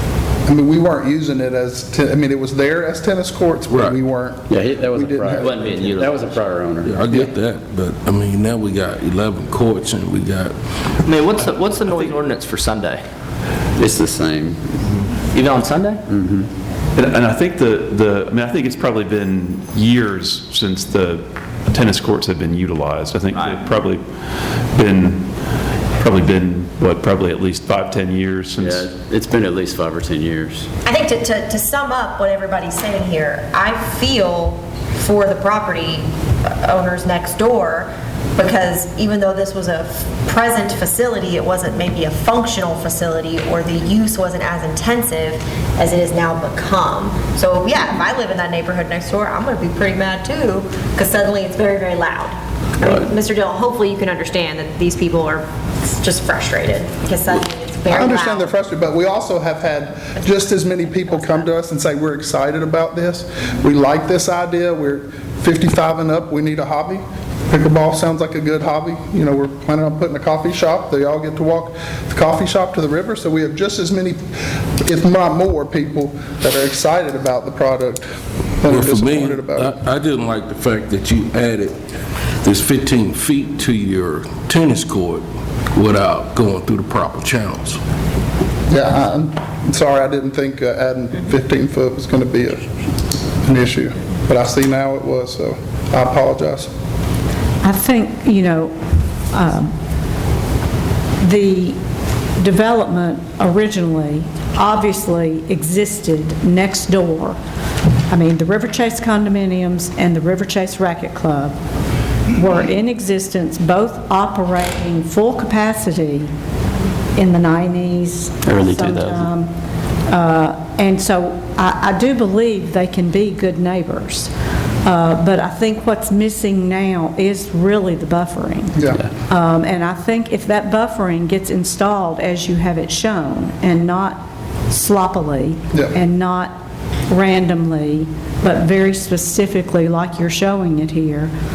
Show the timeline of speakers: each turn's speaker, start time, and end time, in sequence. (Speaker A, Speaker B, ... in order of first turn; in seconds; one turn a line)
Speaker A: 0.5-5.5
Speaker B: 3.7-4.0
Speaker C: 4.5-7.0
Speaker D: 5.4-6.3
Speaker B: 6.8-10.6
Speaker D: 11.1-13.0
Speaker C: 13.8-14.8
Speaker D: 15.3-16.0
Speaker C: 16.1-16.5
Speaker E: 17.0-24.0
Speaker D: 23.3-23.6
Speaker E: 24.8-25.2
Speaker E: 26.0-28.9
Speaker C: 28.6-30.7
Speaker F: 30.9-58.5
Speaker A: 57.9-74.2
Speaker F: 60.2-61.4
Speaker A: 74.8-78.1
Speaker A: 78.6-79.7
Speaker B: 78.7-81.8
Speaker B: 82.4-87.8
Speaker A: 88.7-92.7
Speaker A: 93.4-96.7
Speaker G: 97.6-98.8
Speaker G: 99.3-99.7
Speaker G: 101.2-101.8
Speaker G: 102.4-107.4
Speaker G: 108.1-111.6
Speaker G: 112.3-116.3
Speaker G: 117.2-119.5
Speaker C: 118.4-119.3
Speaker G: 120.1-124.3
Speaker G: 124.8-128.8
Speaker G: 129.3-136.6
Speaker G: 137.1-141.3